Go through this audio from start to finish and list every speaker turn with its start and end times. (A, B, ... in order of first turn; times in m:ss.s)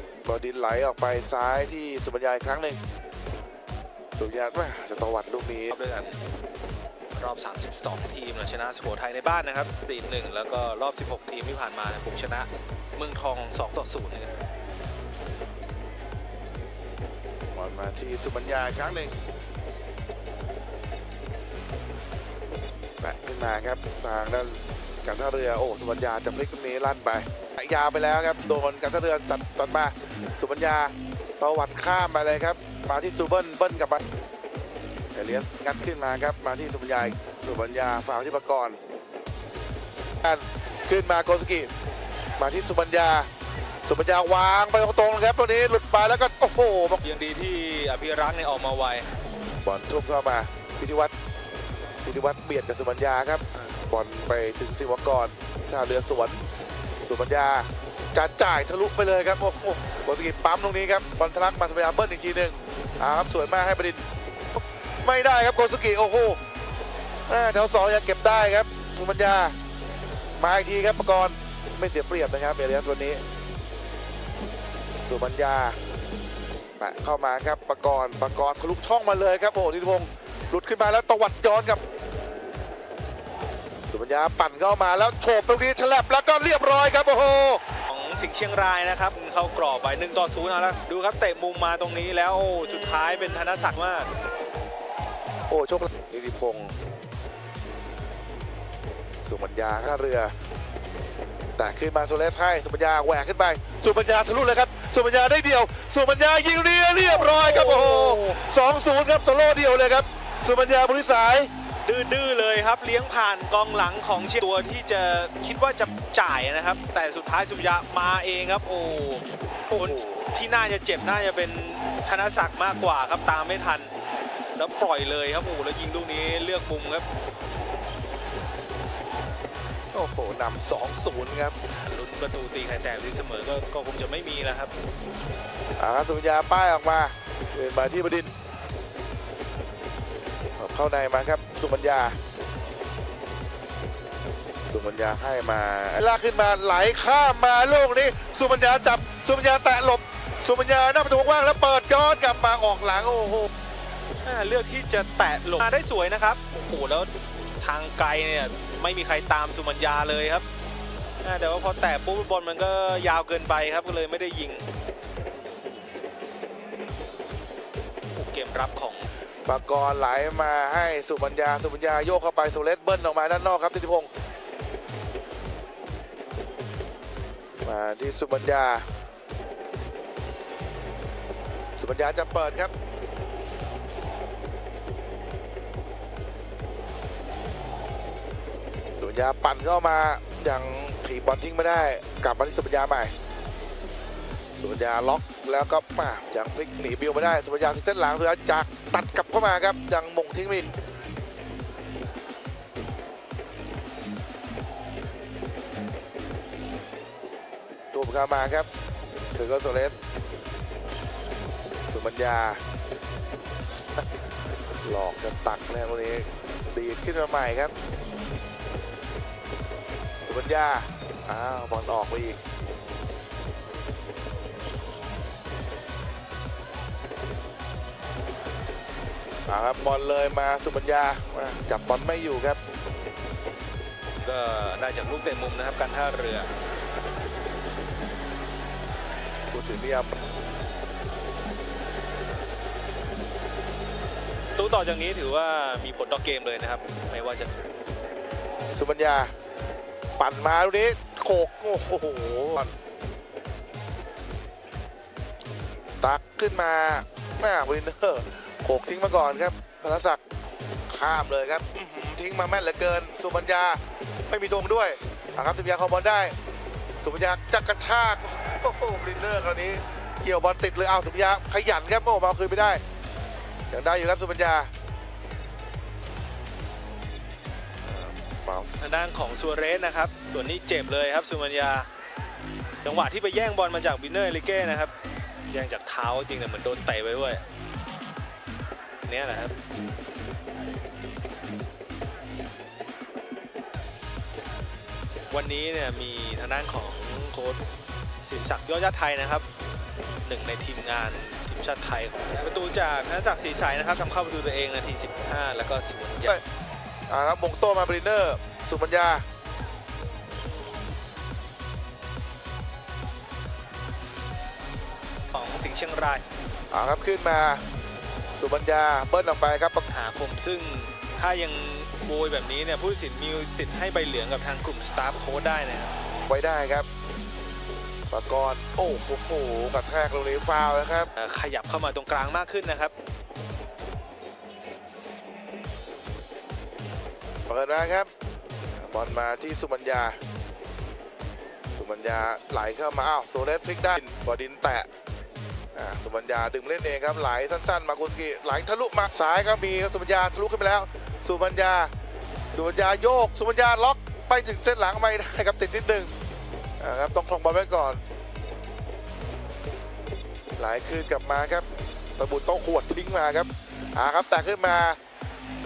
0:00.2-0:02.8 A
0:04.1-0:05.8 A
0:05.7-0:06.2 B
0:07.2-0:14.3 B
0:17.5-0:19.1 A
0:23.0-0:34.0 A
0:35.1-0:38.8 A
0:40.2-0:41.7 A
0:42.4-0:43.3 A
0:43.8-0:47.0 A
0:47.0-0:49.1 B
0:49.6-0:51.1 A
0:52.0-0:56.4 A
0:57.0-1:06.4 A
1:07.3-1:09.5 A
1:10.4-1:13.2 A
1:15.0-1:15.8 A
1:16.8-1:21.8 A
1:23.9-1:27.6 A
1:27.9-1:34.1 B
1:35.5-1:36.7 A
1:39.2-1:40.3 A
1:41.6-1:51.5 A
1:47.1-1:48.4 B
1:51.8-2:03.9 B
1:59.7-2:00.3 A
2:04.6-2:07.0 B
2:09.9-2:11.5 A
2:11.8-2:14.7 B
2:15.8-2:18.3 A
2:20.6-2:22.2 A
2:24.7-2:33.5 A
2:34.2-2:40.4 B
2:41.2-2:44.7 B
2:48.1-2:49.1 B
2:49.4-2:54.1 A
2:57.6-2:58.8 A
3:01.8-3:02.7 A
3:09.0-3:13.1 A
3:14.6-3:20.7 A
3:27.9-3:28.7 A
3:29.3-3:30.0 A
3:31.9-3:32.6 A
3:34.8-3:37.7 A
3:40.2-3:42.4 A
3:49.4-3:52.6 A
3:54.2-3:56.5 B
3:59.5-4:00.2 A
4:04.6-4:07.5 B
4:08.7-4:09.3 A
4:10.2-4:12.7 A
4:16.0-4:20.2 A
4:20.9-4:26.4 A
4:27.0-4:32.8 A
4:33.7-4:34.7 A
4:37.8-4:38.8 A
4:38.8-4:41.9 B
4:42.8-4:44.9 B
4:45.5-4:47.4 B
4:49.0-4:49.5 B
4:55.3-4:57.6 B
4:58.2-4:59.4 B
5:00.2-5:06.4 B
5:07.1-5:09.2 A
5:15.3-5:16.2 B
5:16.7-5:17.6 A
5:18.3-5:19.8 A
5:19.9-5:25.9 B
5:26.2-5:26.8 A
5:28.1-5:31.1 A
5:31.2-5:32.9 B
5:37.5-5:38.1 A
5:38.7-5:40.2 A
5:41.7-5:44.9 A
5:45.7-5:51.9 A
5:52.5-5:56.1 A
5:56.8-5:58.0 A
6:00.6-6:01.6 A
6:02.2-6:05.0 A